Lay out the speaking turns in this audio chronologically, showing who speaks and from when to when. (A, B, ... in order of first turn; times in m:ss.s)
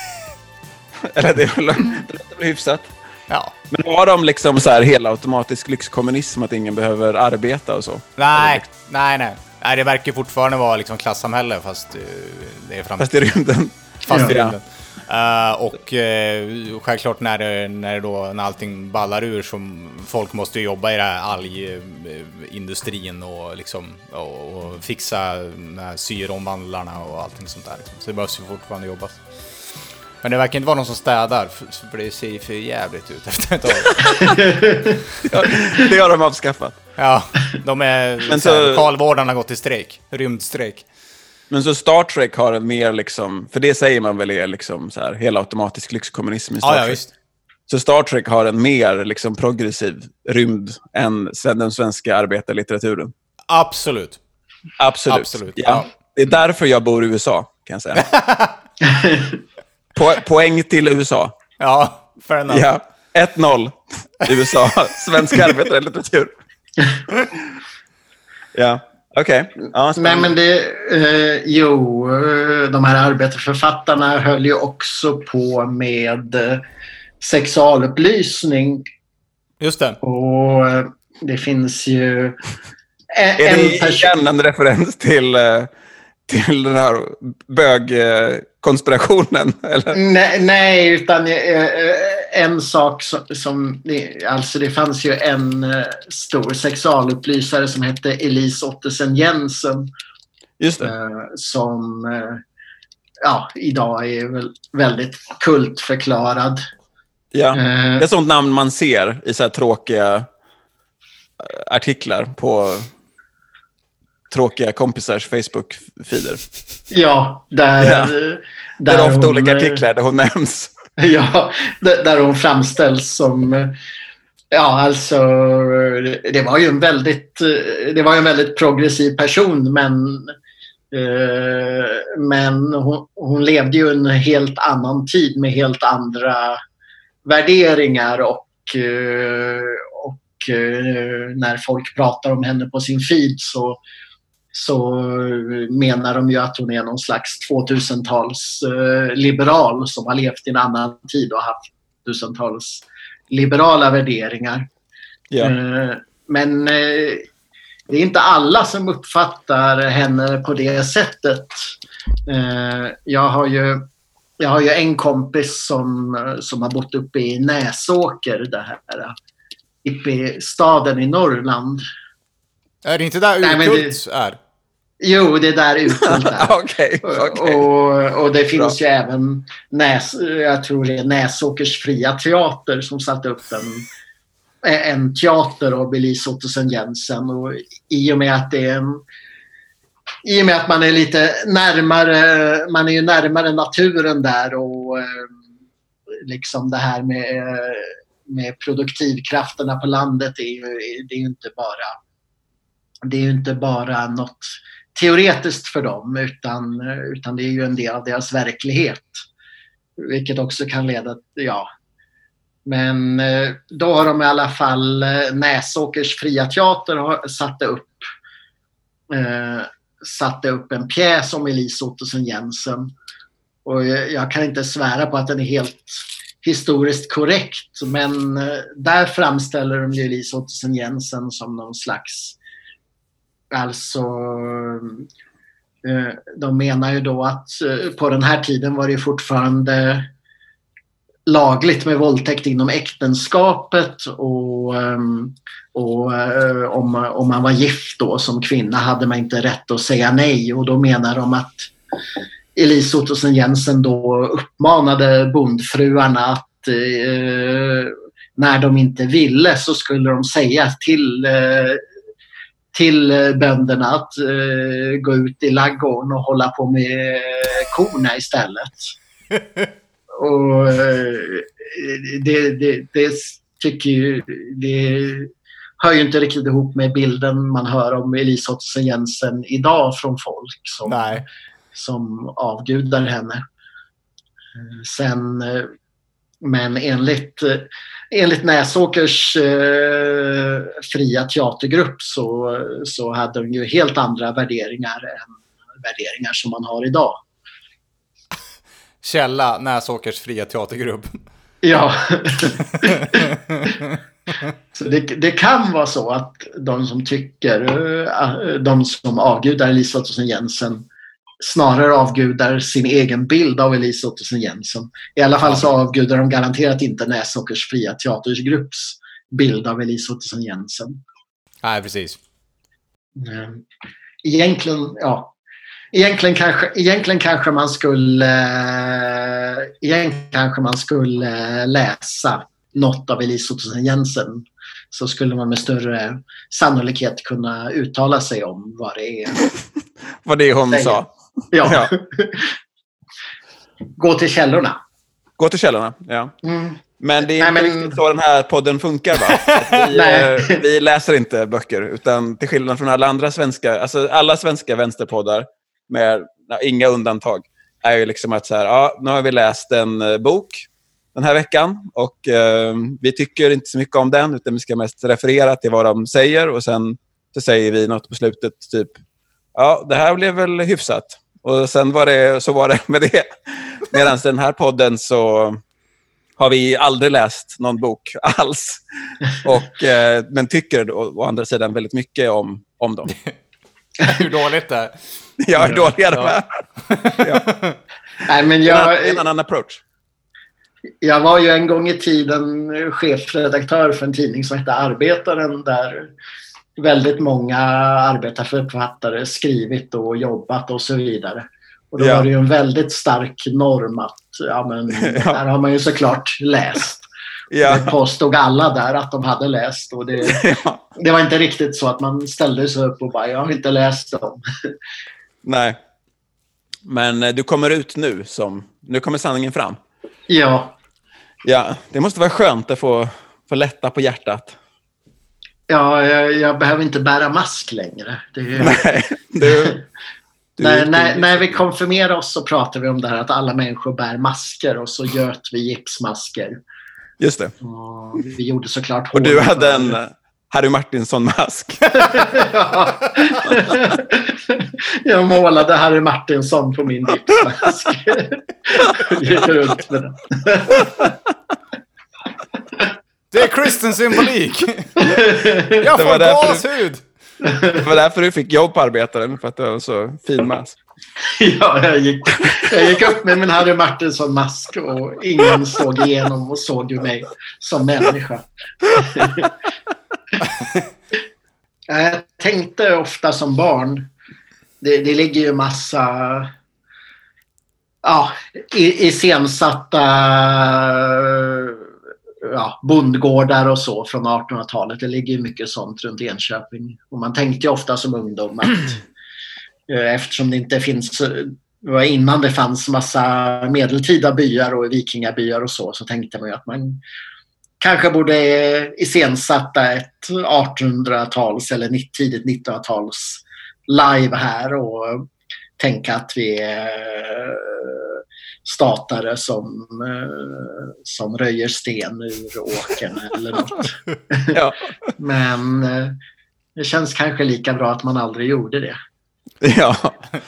0:01.0-0:02.9 A
0:03.7-0:08.6 A
0:08.2-0:13.1 B
0:13.0-0:14.6 A
0:14.1-0:29.2 B
0:14.1-0:14.4 C
0:30.2-0:34.3 B
0:34.3-0:35.0 C
0:35.2-0:36.8 A
0:37.0-0:40.8 B
0:38.3-0:38.8 A
0:41.5-0:47.0 A
0:46.6-0:47.1 B
0:47.7-0:53.1 A
0:53.5-0:54.2 B
0:54.8-0:58.1 A
0:55.1-0:55.9 B
0:57.9-0:58.6 B
0:58.8-0:59.4 C
0:59.9-1:01.3 A
1:01.6-1:02.7 B
1:02.5-1:06.3 A
1:08.6-1:10.3 A
1:10.0-1:16.6 C
1:17.2-1:18.8 C
1:19.6-1:20.0 B
1:20.0-1:22.4 C
1:23.1-1:24.2 C
1:23.4-1:25.7 A
1:26.3-1:30.0 A
1:29.9-1:39.9 C
1:40.6-1:40.9 A
1:40.8-1:42.4 C
1:43.2-1:46.6 C
1:47.3-1:50.3 A
1:47.5-1:48.1 C
1:51.4-1:52.9 A
1:54.3-1:56.4 A
1:56.9-1:59.8 C
1:57.8-1:58.1 A
1:58.9-2:00.7 A
2:01.0-2:03.8 C
2:04.5-2:10.3 C
2:10.9-2:16.6 C
2:17.2-2:23.8 C
2:24.5-2:34.7 C
2:35.4-2:37.3 C
2:37.9-2:41.6 C
2:42.3-2:43.9 C
2:44.4-2:49.1 C
2:49.8-2:51.8 C
2:52.8-2:54.4 B
2:53.4-2:54.0 C
2:55.0-3:03.9 C
2:56.0-2:57.6 A
3:04.6-3:09.0 C
3:10.2-3:15.3 C
3:16.2-3:22.0 C
3:23.0-3:29.2 C
3:30.0-3:31.7 C
3:32.6-3:38.1 C
3:39.1-3:42.9 C
3:43.6-3:52.4 C
3:53.5-3:55.1 C
3:55.8-4:00.1 C
4:01.3-4:11.7 C
4:12.6-4:21.8 C
4:22.7-4:28.9 C
4:30.1-4:43.4 C
4:40.8-4:41.2 B
4:44.6-4:45.7 C
4:46.4-4:57.2 C
4:59.0-5:01.2 B
5:01.6-5:03.2 C
5:04.7-5:10.9 C
5:11.4-5:21.0 C
5:21.6-5:22.2 B
5:23.1-5:23.6 C
5:24.2-5:25.4 C
5:25.9-5:39.4 C
5:40.2-5:41.9 A
5:40.7-5:42.6 C
5:44.0-5:44.8 C
5:45.4-5:46.3 A
5:46.4-5:48.0 C
5:47.0-6:09.0 A
5:49.9-5:50.6 C
6:09.6-6:15.6 A
6:16.4-6:23.1 A
6:24.0-6:24.9 B
6:25.4-6:26.5 A
6:25.6-6:26.4 B
6:26.9-6:27.8 B
6:27.2-6:27.4 A
6:28.2-6:29.2 C
6:28.6-6:29.8 A
6:31.0-6:36.1 C
6:36.8-6:47.1 C
6:42.0-6:42.3 A
6:45.0-6:45.4 A
6:47.5-6:48.0 A
6:47.6-6:50.4 C
6:50.2-6:50.8 A
6:51.0-6:54.4 C
6:55.4-6:55.8 A
6:56.9-6:59.8 A
7:00.3-7:00.8 C
7:01.4-7:04.6 A
7:05.7-7:08.8 C
7:08.6-7:09.8 A
7:09.4-7:09.8 C
7:10.6-7:11.6 A
7:10.6-7:16.6 C
7:17.2-7:17.5 A
7:17.6-7:20.0 C
7:19.1-7:22.2 A
7:22.0-7:31.1 C
7:33.3-7:35.0 B
7:35.0-7:35.8 C
7:35.8-7:37.0 B
7:35.9-7:36.6 A
7:37.4-7:37.8 C
7:37.8-7:40.8 A
7:41.2-7:49.5 C
7:51.9-7:54.1 C
7:54.8-7:56.5 C
7:58.0-8:01.9 C
8:02.4-8:09.0 C
8:09.9-8:17.0 C
8:17.8-8:34.6 C
8:34.5-8:34.8 A
8:35.2-8:36.2 C
8:36.8-8:39.0 C
8:39.6-8:40.1 A